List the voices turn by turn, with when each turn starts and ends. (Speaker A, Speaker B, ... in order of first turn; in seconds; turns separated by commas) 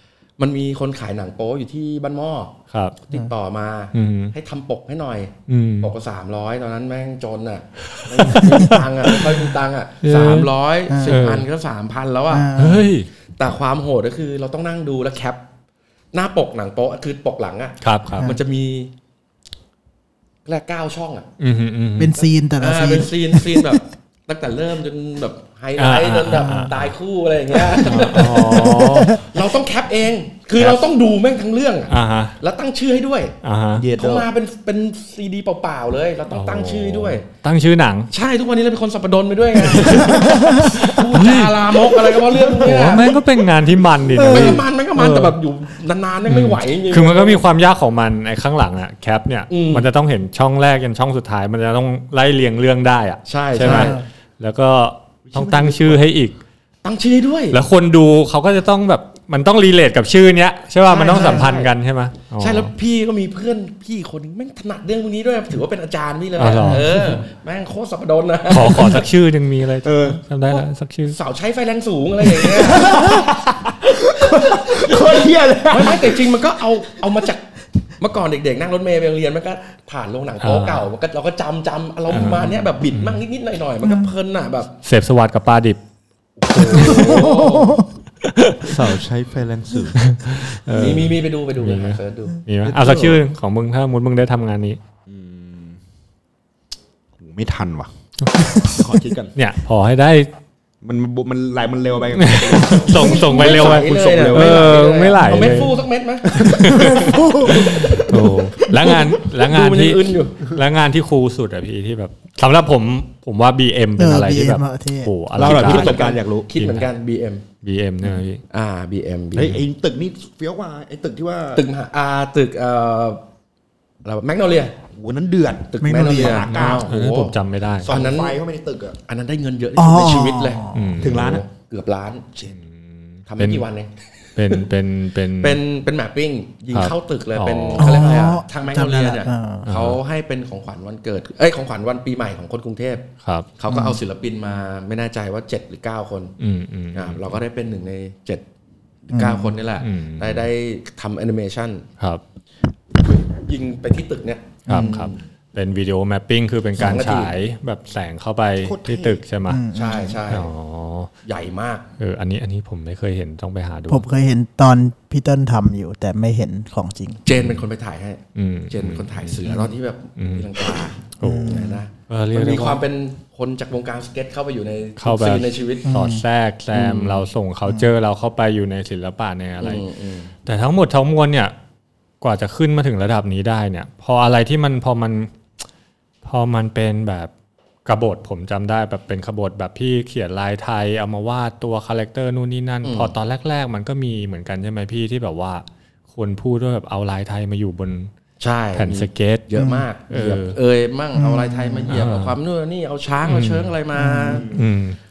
Speaker A: 0.4-12.6, Speaker B: 2.7-3.0, Speaker B: 3.9-4.3, Speaker B: 5.5-5.9, Speaker B: 7.9-9.5, Speaker B: 10.0-10.5, Speaker C: 10.9-11.2, Speaker B: 11.0-11.4, Speaker C: 12.3-12.9, Speaker B: 12.6-13.1, Speaker A: 13.4-15.4, Speaker A: 16.1-18.9, Speaker B: 17.8-18.3, Speaker A: 20.4-21.3, Speaker B: 21.4-22.1, Speaker C: 22.0-23.8, Speaker A: 22.1-33.4, Speaker B: 25.8-26.9, Speaker C: 26.3-26.7, Speaker C: 27.7-29.2, Speaker B: 27.7-29.2, Speaker B: 30.6-30.9, Speaker B: 31.9-32.4, Speaker B: 33.4-33.9, Speaker D: 33.8-34.3, Speaker A: 33.9-37.2, Speaker B: 36.3-38.1, Speaker A: 38.1-43.2, Speaker B: 39.6-45.3, Speaker C: 40.3-40.6, Speaker C: 44.2-44.6, Speaker A: 44.2-47.4, Speaker B: 46.2-56.4, Speaker A: 49.5-49.9, Speaker A: 53.2-54.0, Speaker C: 53.6-54.0, Speaker D: 55.3-56.1, Speaker A: 56.8-57.6, Speaker B: 57.5-62.7, Speaker A: 60.9-61.7, Speaker A: 62.4-69.0, Speaker B: 66.3-67.2, Speaker C: 66.6-66.8, Speaker B: 68.5-71.2, Speaker D: 69.8-70.2, Speaker A: 71.1-73.2, Speaker D: 72.5-76.3, Speaker A: 74.6-75.1, Speaker A: 75.7-77.4, Speaker A: 78.0-84.7, Speaker B: 80.4-80.8, Speaker B: 82.1-83.2, Speaker B: 84.8-85.8, Speaker A: 86.4-87.9, Speaker B: 86.5-87.3, Speaker C: 86.9-87.8, Speaker B: 88.3-89.0, Speaker D: 88.6-90.5, Speaker B: 90.0-94.8, Speaker A: 90.7-92.4, Speaker D: 92.6-93.2, Speaker D: 95.1-95.8, Speaker D: 97.2-97.9, Speaker B: 98.2-98.7, Speaker D: 98.6-99.3, Speaker B: 99.3-100.3, Speaker D: 100.8-104.9, Speaker B: 102.2-105.7, Speaker A: 102.7-108.1, Speaker D: 106.3-107.0, Speaker B: 106.3-116.0, Speaker C: 106.8-108.0, Speaker A: 109.4-110.5, Speaker C: 114.0-115.1, Speaker D: 115.3-116.5, Speaker A: 115.4-117.4, Speaker B: 116.5-116.9, Speaker B: 117.6-118.4, Speaker A: 118.5-119.6, Speaker D: 119.3-121.7, Speaker A: 121.5-123.2, Speaker A: 124.0-124.7, Speaker D: 124.9-126.9, Speaker A: 125.7-127.4, Speaker C: 125.8-126.5, Speaker B: 126.5-127.9, Speaker D: 127.8-129.0, Speaker A: 127.9-128.3, Speaker A: 129.1-132.3, Speaker C: 129.8-130.8, Speaker B: 130.7-131.3, Speaker D: 131.0-131.4, Speaker B: 132.4-133.6, Speaker A: 133.3-133.9, Speaker B: 134.3-135.6, Speaker A: 135.4-146.3, Speaker B: 136.7-138.2, Speaker C: 137.8-139.7, Speaker B: 139.6-140.0, Speaker B: 143.2-143.5, Speaker C: 143.7-144.0, Speaker B: 146.4-147.3, Speaker A: 146.9-148.4, Speaker A: 149.1-151.9, Speaker C: 149.1-149.5, Speaker B: 149.8-150.4, Speaker A: 153.0-155.2, Speaker C: 154.7-155.0, Speaker B: 154.7-159.6, Speaker A: 156.8-157.3, Speaker D: 158.6-159.2, Speaker C: 159.5-160.2, Speaker A: 159.7-160.5, Speaker B: 160.3-161.1, Speaker A: 161.2-161.9, Speaker B: 162.0-164.0, Speaker C: 163.9-167.2, Speaker A: 167.2-175.9, Speaker B: 167.4-167.6, Speaker B: 168.3-169.4, Speaker B: 170.2-170.7, Speaker B: 171.2-172.8, Speaker C: 171.2-171.8, Speaker B: 175.0-179.8, Speaker C: 175.8-176.2, Speaker A: 176.7-177.3, Speaker A: 179.6-180.3, Speaker B: 180.4-181.5, Speaker B: 182.2-185.3, Speaker B: 186.2-187.3, Speaker B: 187.8-198.1, Speaker A: 192.8-193.1, Speaker A: 198.4-204.6, Speaker B: 198.7-199.5, Speaker C: 199.6-199.9, Speaker B: 200.1-200.6, Speaker C: 201.2-201.9, Speaker B: 201.9-202.4, Speaker B: 203.2-203.7, Speaker C: 203.9-204.4, Speaker D: 204.3-204.6, Speaker B: 204.5-205.0